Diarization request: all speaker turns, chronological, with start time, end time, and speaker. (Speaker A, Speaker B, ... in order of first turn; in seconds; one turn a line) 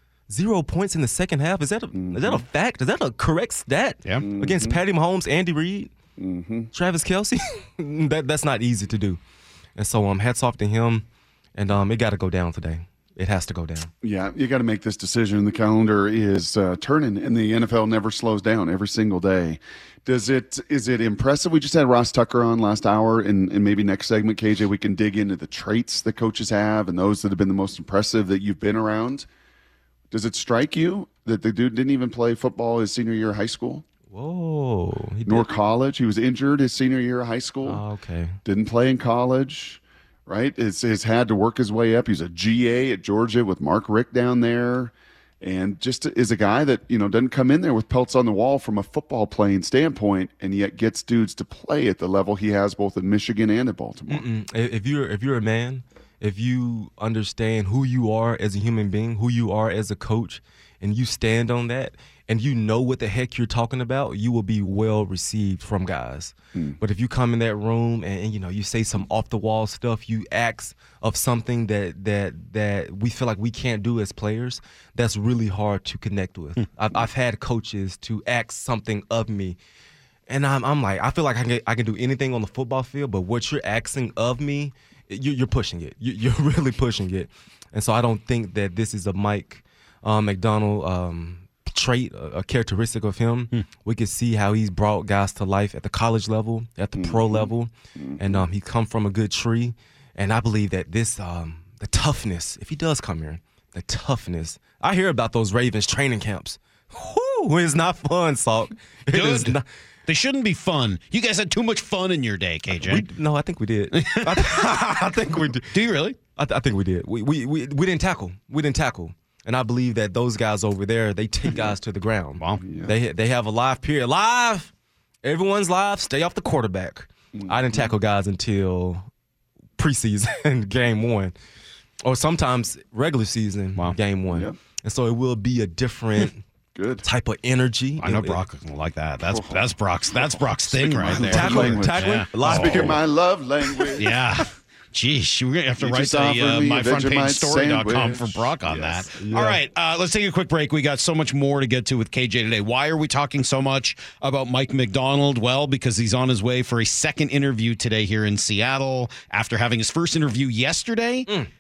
Speaker A: 0.3-5.9
Speaker B: 1.9-2.4
Speaker B: 4.2-4.8
Speaker B: 6.2-6.7
Speaker A: 6.7-9.2
Speaker A: 9.8-13.9
Speaker B: 14.0-29.3
Speaker B: 30.1-33.9
Speaker A: 34.1-35.5
Speaker B: 35.2-37.8
Speaker A: 37.6-38.4
Speaker B: 38.4-54.2
Speaker A: 54.1-79.6
Speaker A: 80.3-109.7
Speaker B: 97.0-98.4
Speaker C: 109.1-113.0
Speaker A: 112.8-115.7
Speaker C: 113.9-114.8
Speaker C: 115.6-116.2
Speaker A: 116.3-124.7
Speaker B: 122.6-122.9
Speaker A: 125.2-129.1
Speaker B: 127.3-127.9
Speaker A: 129.8-131.3
Speaker A: 132.0-136.4
Speaker B: 134.3-134.6
Speaker B: 136.8-137.0
Speaker A: 137.0-138.4
Speaker C: 138.0-143.0
Speaker B: 139.3-144.2
Speaker A: 141.2-143.0
Speaker C: 143.9-161.3
Speaker B: 145.8-149.1
Speaker A: 149.2-149.6